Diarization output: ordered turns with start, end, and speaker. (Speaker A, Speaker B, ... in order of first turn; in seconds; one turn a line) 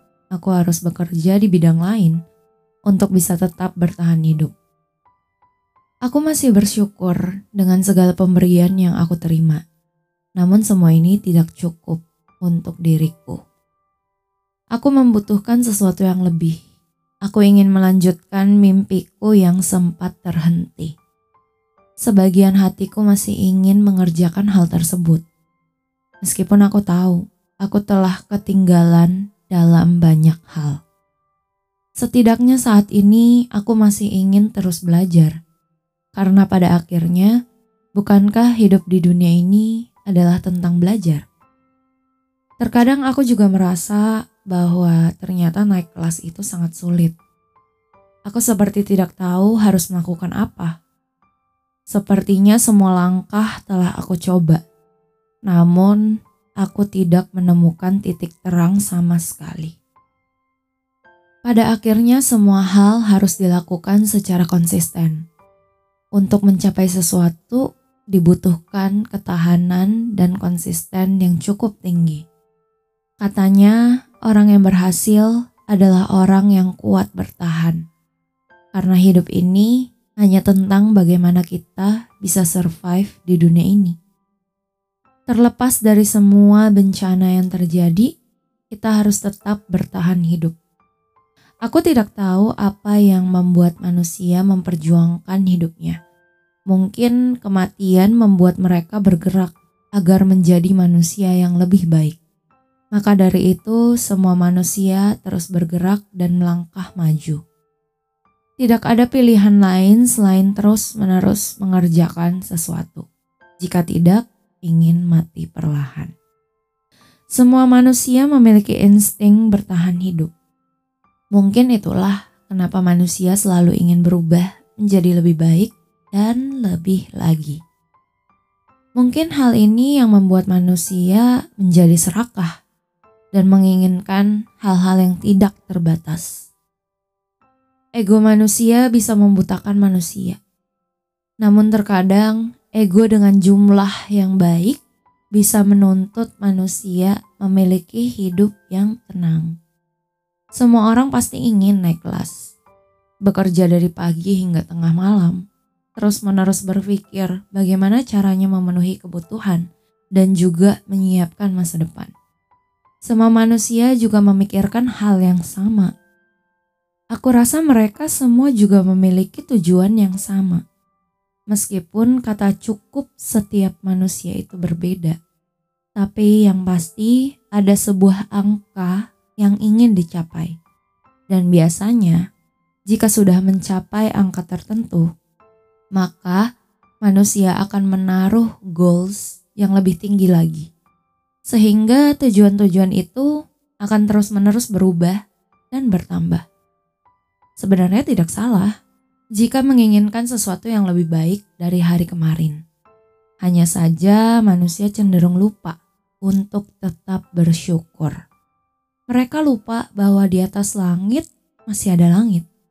Speaker A: 0.3-2.2
Speaker A: 2.9-4.5
Speaker A: 6.0-9.6
Speaker A: 10.4-13.4
Speaker A: 14.8-16.5
Speaker A: 17.2-20.9
Speaker A: 22.0-25.2
Speaker A: 26.2-30.8
Speaker A: 32.0-35.3
Speaker A: 36.1-37.3
Speaker A: 38.0-41.2
Speaker A: 42.6-47.1
Speaker A: 48.3-50.7
Speaker A: 51.9-54.6
Speaker A: 55.5-56.0
Speaker A: 56.6-59.7
Speaker A: 61.4-65.2
Speaker A: 66.2-72.2
Speaker A: 73.2-77.8
Speaker A: 78.7-83.9
Speaker A: 85.3-88.1
Speaker A: 88.7-90.5
Speaker A: 91.6-96.0
Speaker A: 96.7-102.2
Speaker A: 102.9-107.4
Speaker A: 108.6-113.0
Speaker A: 113.6-116.1
Speaker A: 117.3-120.3
Speaker A: 121.3-127.6
Speaker A: 129.0-132.5
Speaker A: 133.3-136.5
Speaker A: 138.0-140.4
Speaker A: 141.4-144.8
Speaker A: 145.3-149.5
Speaker A: 150.6-152.5
Speaker A: 153.2-155.4
Speaker A: 156.0-159.6
Speaker A: 160.2-162.1
Speaker A: 163.1-165.9
Speaker A: 167.1-170.6
Speaker A: 171.5-175.2
Speaker A: 176.0-180.5
Speaker A: 181.3-182.2
Speaker A: 182.9-185.1
Speaker A: 185.9-186.4
Speaker A: 187.0-190.7
Speaker A: 191.5-193.3
Speaker A: 193.8-195.2
Speaker A: 195.7-196.4
Speaker A: 197.6-198.7
Speaker A: 199.4-202.6
Speaker A: 203.4-205.8
Speaker A: 206.3-208.2
Speaker A: 209.1-212.4